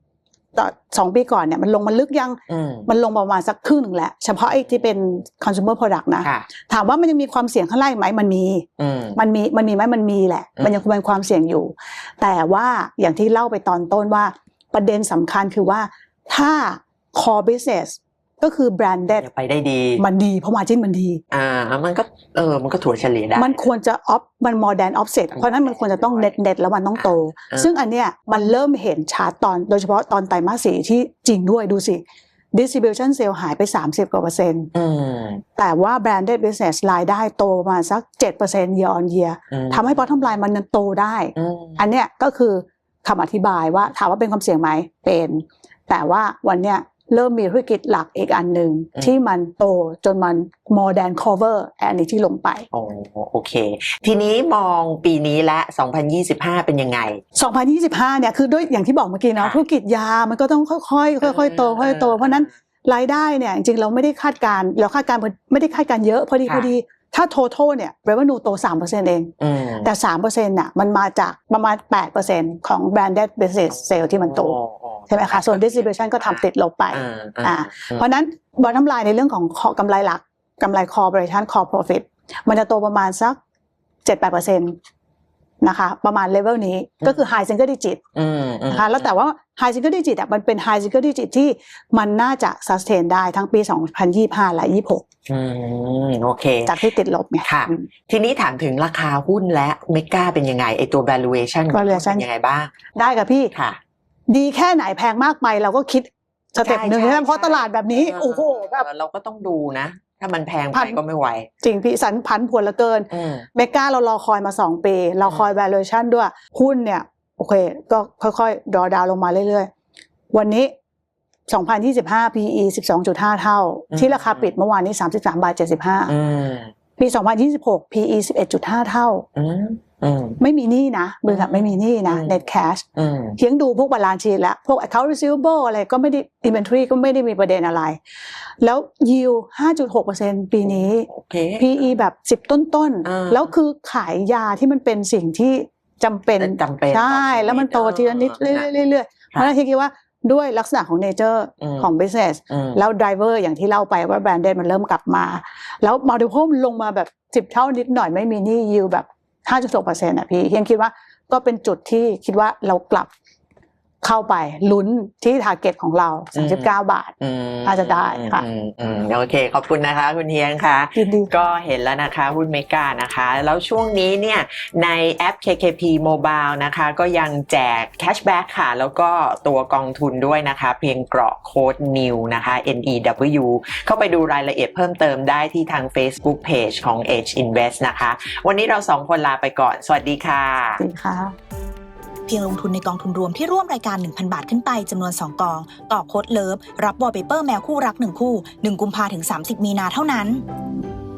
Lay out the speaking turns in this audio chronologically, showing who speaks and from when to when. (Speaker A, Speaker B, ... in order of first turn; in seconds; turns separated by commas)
Speaker A: 0.5-19.2, Speaker B: 2.5-2.9, Speaker B: 4.5-5.0, Speaker B: 8.8-9.2, Speaker B: 19.1-20.0, Speaker A: 20.0-21.2, Speaker B: 21.3-23.6, Speaker A: 23.4-34.7, Speaker B: 25.4-26.4, Speaker B: 27.0-27.7, Speaker B: 34.7-35.4, Speaker A: 35.6-52.7, Speaker B: 39.5-40.0, Speaker B: 41.4-41.8, Speaker B: 52.7-57.2, Speaker A: 57.4-74.5, Speaker B: 59.4-59.6, Speaker B: 61.2-62.5, Speaker B: 69.4-69.9, Speaker B: 73.7-78.0, Speaker A: 75.1-83.4, Speaker A: 84.0-84.7, Speaker A: 85.6-88.0, Speaker B: 88.1-89.1, Speaker A: 88.7-95.0, Speaker B: 95.3-96.8, Speaker A: 96.6-97.8, Speaker B: 97.4-102.7, Speaker A: 101.7-102.2, Speaker A: 102.9-103.5, Speaker B: 103.5-103.8, Speaker A: 104.3-108.8, Speaker B: 106.6-111.5, Speaker A: 110.7-111.0, Speaker A: 111.6-119.7, Speaker B: 113.1-113.5, Speaker A: 120.3-120.7, Speaker A: 121.5-126.1, Speaker B: 123.9-124.5, Speaker B: 126.1-126.7, Speaker A: 127.0-129.2, Speaker B: 129.3-130.4, Speaker A: 130.4-132.8, Speaker B: 131.3-132.4, Speaker B: 132.9-133.4, Speaker A: 133.4-138.0, Speaker A: 138.6-163.1, Speaker B: 141.1-141.9, Speaker B: 143.0-143.5, Speaker B: 146.4-148.7, Speaker B: 151.6-151.9, Speaker B: 152.5-152.8, Speaker A: 164.0-167.1, Speaker B: 166.3-166.7, Speaker B: 167.2-190.8, Speaker A: 167.6-168.4, Speaker A: 171.0-171.3, Speaker A: 190.8-191.3, Speaker C: 192.3-200.4